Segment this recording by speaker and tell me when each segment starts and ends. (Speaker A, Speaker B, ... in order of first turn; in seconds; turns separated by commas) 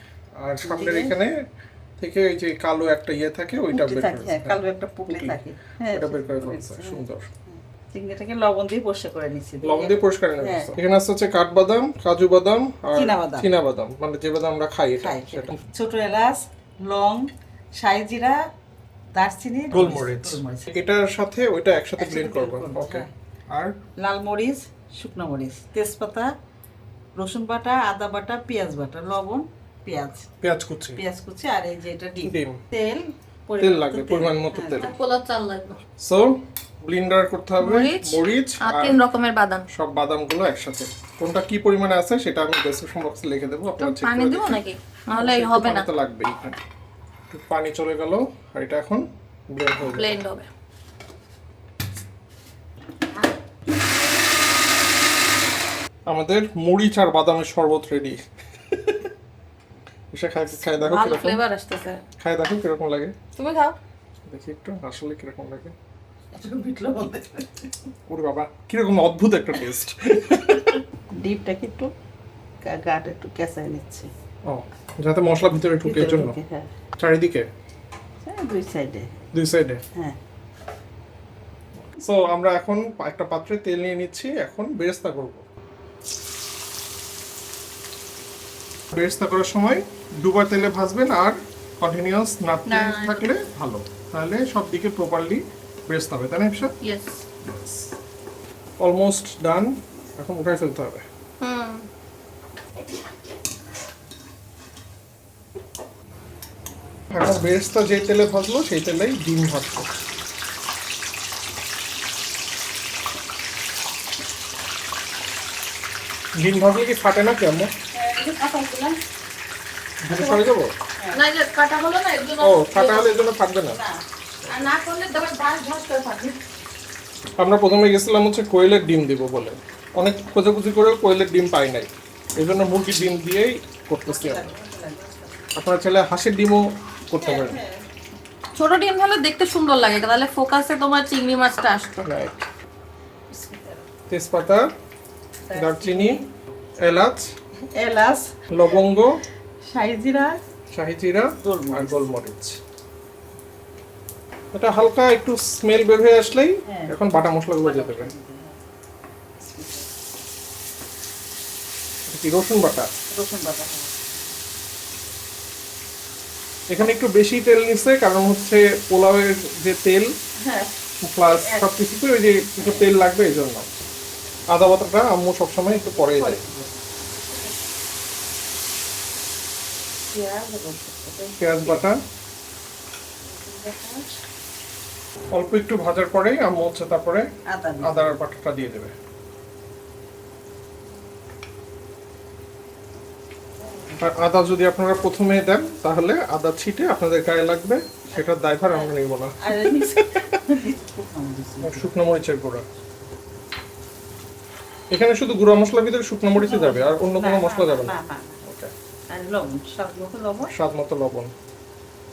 Speaker A: 0.4-1.3, Speaker B: 0.6-1.1, Speaker A: 2.0-5.4, Speaker B: 3.7-10.7, Speaker A: 5.9-7.3, Speaker A: 9.6-15.6, Speaker B: 12.9-13.5, Speaker B: 15.0-18.4, Speaker B: 19.1-20.7, Speaker A: 19.7-23.8, Speaker B: 22.0-23.1, Speaker B: 24.0-26.3, Speaker B: 27.2-30.3, Speaker A: 30.3-31.0, Speaker B: 31.0-35.0, Speaker A: 32.2-32.6, Speaker A: 33.6-35.0, Speaker C: 34.8-35.8, Speaker A: 36.0-39.0, Speaker C: 37.6-39.6, Speaker A: 39.7-44.6, Speaker C: 43.8-45.9, Speaker A: 45.1-46.6, Speaker A: 47.3-50.2, Speaker C: 49.8-50.5, Speaker A: 56.1-58.2, Speaker A: 58.7-59.0, Speaker A: 60.1-61.4, Speaker C: 60.8-62.0, Speaker A: 62.2-63.1, Speaker C: 63.4-63.8, Speaker A: 64.3-65.8, Speaker B: 66.3-67.7, Speaker A: 68.1-70.8, Speaker B: 71.2-71.9, Speaker B: 72.6-74.1, Speaker A: 74.5-76.4, Speaker B: 75.8-76.7, Speaker A: 77.0-77.5, Speaker B: 78.2-79.2, Speaker A: 79.3-79.8, Speaker A: 82.0-85.4, Speaker A: 88.9-96.7, Speaker C: 92.7-93.3, Speaker C: 96.8-97.2, Speaker A: 97.4-97.9, Speaker A: 98.8-101.0, Speaker C: 101.4-101.8, Speaker A: 107.1-109.9, Speaker A: 116.4-117.7, Speaker B: 118.0-119.0, Speaker A: 120.0-120.7, Speaker B: 120.1-121.2, Speaker C: 121.1-123.1, Speaker A: 122.4-123.8, Speaker B: 123.7-126.4, Speaker C: 124.9-125.9, Speaker A: 127.4-134.5, Speaker B: 134.1-135.5, Speaker A: 135.6-137.6, Speaker B: 137.2-137.9, Speaker C: 138.6-142.1, Speaker A: 142.0-142.4, Speaker B: 143.3-143.9, Speaker A: 144.1-144.7, Speaker B: 145.5-146.3, Speaker A: 145.5-146.2, Speaker A: 146.8-147.2, Speaker B: 147.7-148.4, Speaker A: 148.5-149.2, Speaker B: 149.7-150.4, Speaker A: 150.7-152.6, Speaker B: 151.4-152.1, Speaker A: 154.5-158.1, Speaker B: 156.7-156.9, Speaker B: 157.6-158.6, Speaker B: 159.4-159.9, Speaker A: 162.1-162.9, Speaker B: 163.1-164.3, Speaker A: 166.7-170.1, Speaker B: 170.4-170.7, Speaker A: 171.0-173.7, Speaker B: 171.4-171.7, Speaker A: 174.5-176.4, Speaker B: 175.9-176.8, Speaker B: 180.1-181.8, Speaker A: 181.4-182.0, Speaker B: 183.3-184.2, Speaker A: 185.3-187.3, Speaker B: 187.5-188.2, Speaker A: 187.8-188.9, Speaker B: 193.6-194.1, Speaker A: 194.0-200.4, Speaker B: 198.2-198.9, Speaker B: 199.4-201.9, Speaker A: 201.6-202.7, Speaker A: 204.9-208.7, Speaker B: 206.4-208.4, Speaker B: 209.1-210.5, Speaker A: 210.4-211.3